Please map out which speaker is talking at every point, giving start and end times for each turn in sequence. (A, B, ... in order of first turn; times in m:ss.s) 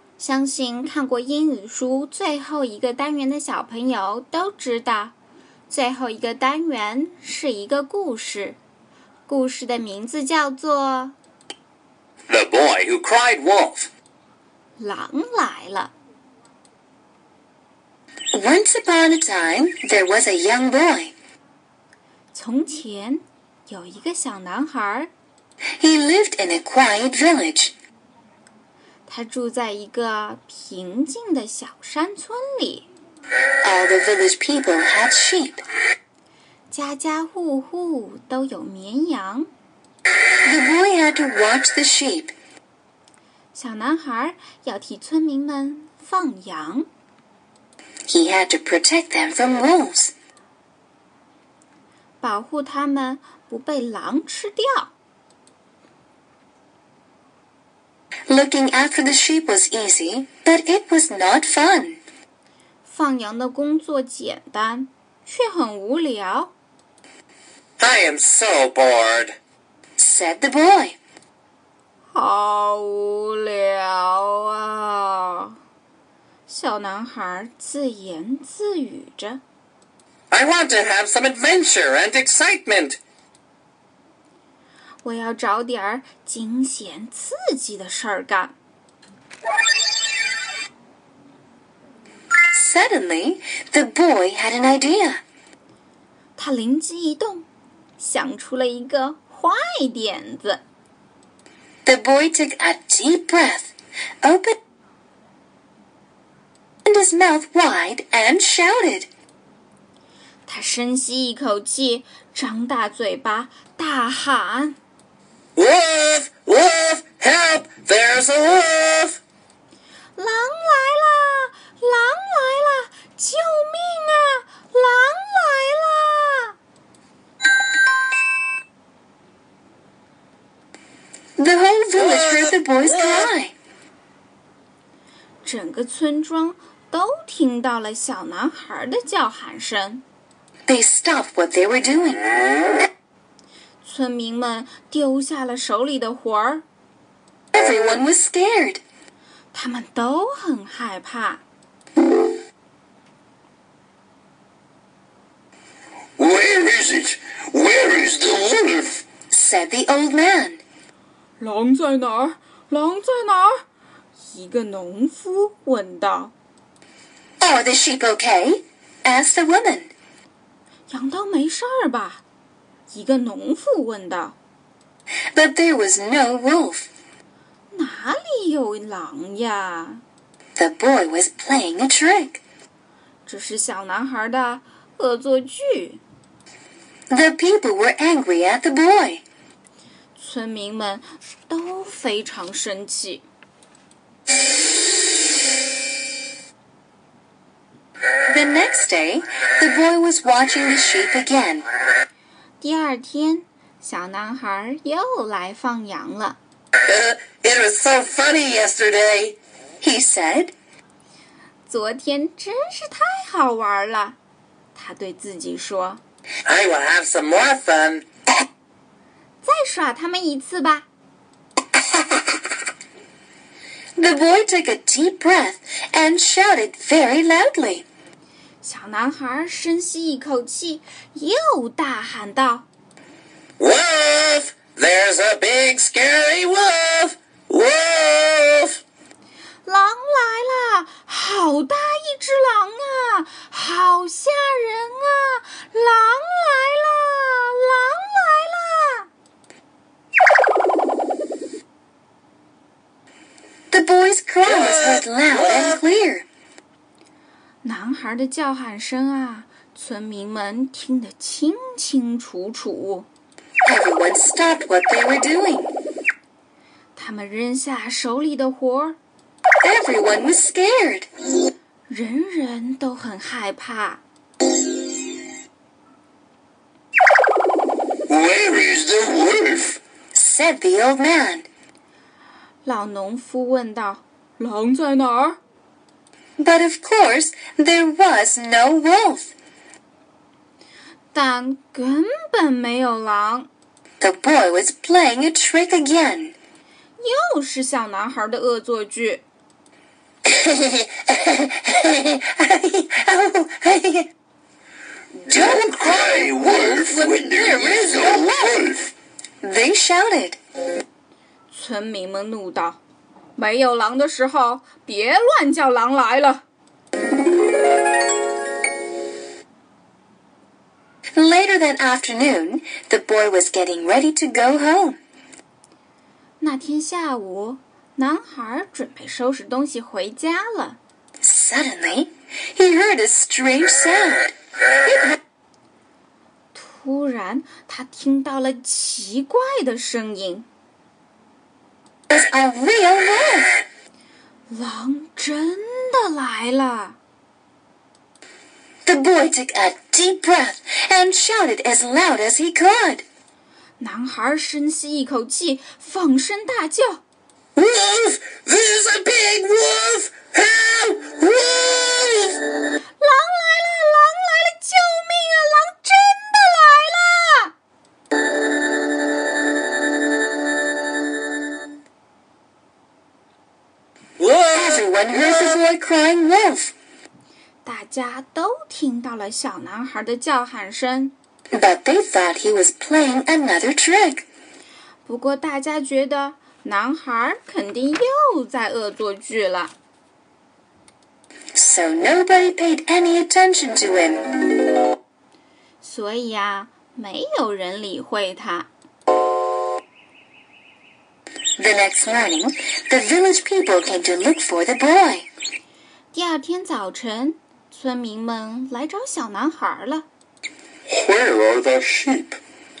0:00.2-0:05.2 A
0:05.7-0:08.6 A
0:09.3-0:11.2 A
0:12.3-0:13.9 B
0:14.8-0:15.9 A
0:18.3-0:21.1 C
0:22.3-0:25.1 A
0:25.8-0:27.7 C
0:29.1-0:32.9 A
0:33.6-0:35.6 C
0:36.7-0:39.5 A
0:40.4-0:42.3 C
0:43.5-0:46.9 A
0:48.1-0:50.1 C
0:52.2-0:54.9 A
0:58.3-1:02.0 C
1:02.8-1:06.5 A
1:07.8-1:09.3 B
1:10.0-1:11.0 C
1:12.1-1:15.6 A
1:16.5-1:19.4 A
1:20.3-1:23.0 B
1:25.0-1:28.5 A
1:32.5-1:35.2 C
1:36.4-1:37.4 A
1:38.0-1:40.6 A
1:41.8-1:43.7 C
1:44.2-1:44.6 C
1:46.8-1:49.1 C
1:50.5-1:54.8 A
1:55.6-1:59.2 B
2:00.2-2:06.6 A
2:11.4-2:13.5 C
2:15.4-2:20.0 A
2:20.7-2:22.3 C
2:23.8-2:26.6 A
2:27.5-2:28.8 C
2:29.5-2:31.4 A
2:36.2-2:39.0 B
2:39.3-2:40.6 C
2:41.4-2:43.6 A
2:44.3-2:46.3 A
2:47.4-2:49.9 C
2:50.9-2:52.2 A
2:52.9-2:54.4 A
2:55.3-2:56.9 C
2:57.7-3:00.0 A
3:00.6-3:02.4 C
3:03.2-3:06.0 A
3:07.1-3:09.2 C
3:10.2-3:13.2 A
3:18.3-3:21.6 C
3:22.6-3:26.4 A
3:26.8-3:29.4 B
3:29.8-3:30.5 C
3:31.7-3:34.2 A
3:34.7-3:36.0 A
3:36.4-3:38.0 B
3:39.4-3:40.9 A
3:44.0-3:47.8 C
3:48.6-3:52.6 A
3:53.6-3:58.8 B
3:59.6-4:09.1 A
4:13.7-4:16.2 C
4:17.6-4:23.1 A
4:23.6-4:25.7 C
4:27.0-4:29.0 A
4:29.6-4:31.1 C
4:31.9-4:34.0 A
4:38.1-4:39.8 B
4:40.1-4:41.4 C
4:42.6-4:45.4 A
4:46.4-4:49.3 C
4:51.1-4:53.5 A
4:54.0-4:56.3 C
4:57.0-4:59.2 A
5:00.2-5:04.1 C
5:05.2-5:08.6 C
5:05.3-5:08.9 B
5:09.4-5:10.4 C
5:11.5-5:12.8 A
5:13.4-5:16.4 A
5:21.2-5:25.0 C
5:26.4-5:30.8 A
5:31.2-5:34.3 C
5:34.9-5:35.1 C
5:36.5-5:40.5 A
5:42.1-5:43.6 C
5:44.5-5:47.0 A
5:48.8-5:53.0 C
5:53.8-5:57.0 A
5:57.5-6:02.4 B
6:03.0-6:07.5 A
6:14.2-6:14.8 B
6:14.5-6:16.7 C
6:17.6-6:21.1 A
6:21.5-6:24.2 C
6:25.0-6:29.7 A
6:31.5-6:34.4 C
6:35.8-6:38.7 A
6:41.6-6:45.3 C
6:46.1-6:50.1 A
6:50.9-6:52.4 B